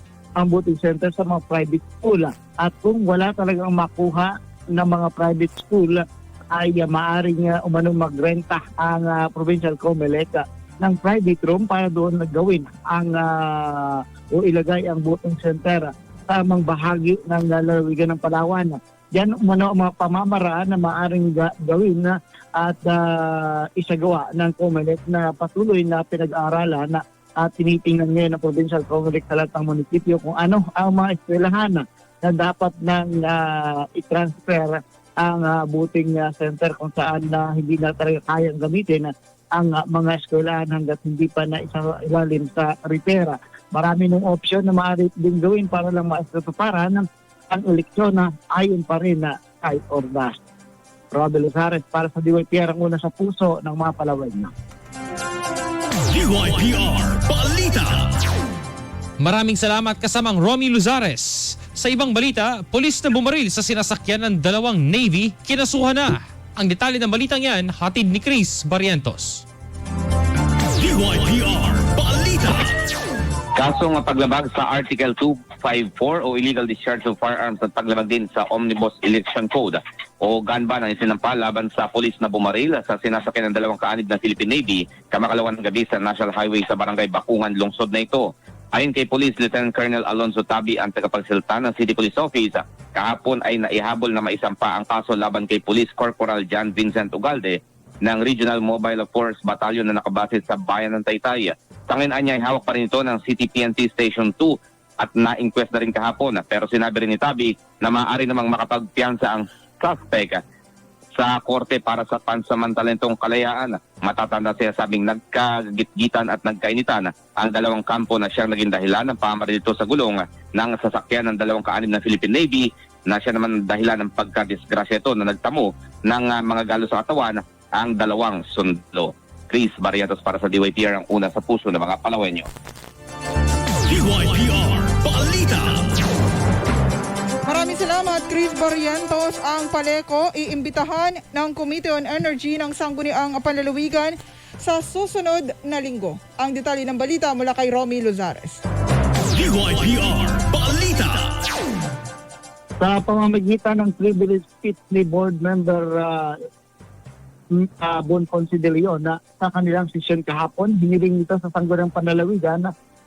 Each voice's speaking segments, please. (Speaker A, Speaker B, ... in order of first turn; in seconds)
Speaker A: 0.4-50.4, 51.1-54.5, 152.8-156.3, 157.6-162.7
Speaker B: 56.1-58.1, 70.8-72.7, 133.8-135.9, 149.3-151.4
Speaker C: 59.2-69.4
Speaker D: 73.6-110.4, 111.2-132.5
Speaker E: 137.5-148.6